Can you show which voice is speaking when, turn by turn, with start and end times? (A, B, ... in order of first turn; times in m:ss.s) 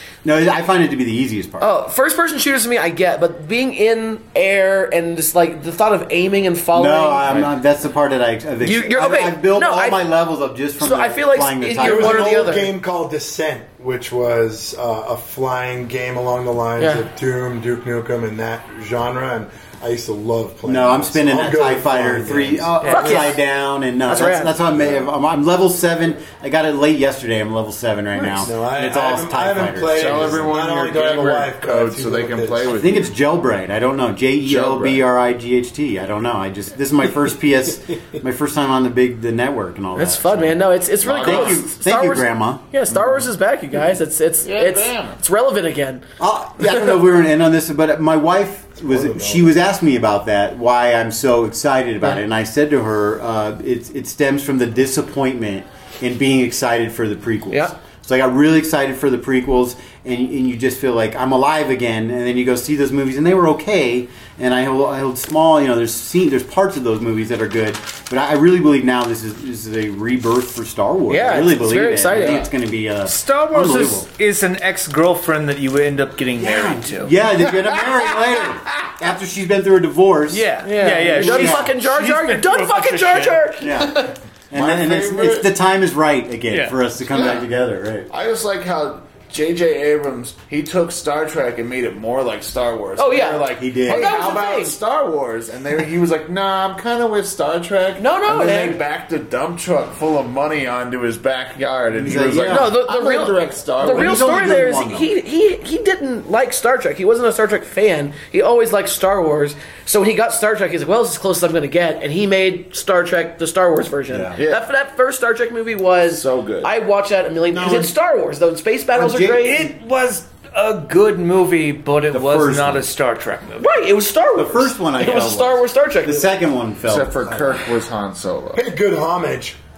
0:00.2-0:01.7 A
0:01.6-0:07.5 B
0:06.7-0:12.7 A
0:08.6-0:10.0 B
0:10.8-0:12.7 B
0:11.8-0:22.8 C
0:16.8-0:17.0 B
0:20.6-0:30.6 A
0:22.8-0:23.2 D
0:22.8-0:23.4 B
0:24.0-0:24.5 B
0:28.2-0:32.7 C
0:29.9-0:33.1 E
0:32.7-0:43.3 A
0:34.4-0:35.0 E
0:40.0-0:46.0 B
0:41.1-0:41.6 E
0:44.4-0:45.2 E
0:46.2-1:14.0 A
0:46.6-0:46.9 B
0:48.8-0:49.5 C
1:11.1-1:12.4 B
1:13.0-1:17.1 D
1:16.4-1:20.5 A
1:17.4-1:18.9 E
1:20.3-1:23.5 D
1:20.6-1:24.2 B
1:21.1-1:21.7 A
1:23.6-1:28.1 A
1:24.5-1:25.5 E
1:26.5-1:26.8 D
1:27.1-1:27.5 E
1:28.1-1:44.6 E
1:33.0-1:34.7 B
1:33.5-1:34.2 A
1:38.0-1:38.8 B
1:41.9-1:42.7 A
1:42.4-1:59.7 B
1:43.8-1:45.1 A
1:54.1-1:54.4 A
1:54.4-1:54.6 E
1:56.0-1:56.7 E
1:57.5-1:57.9 A
1:58.9-1:59.5 A
1:59.4-2:03.7 D
2:02.1-2:02.8 A
2:03.6-2:06.3 B
2:04.4-2:07.6 A
2:06.8-2:08.6 E
2:08.5-2:09.6 C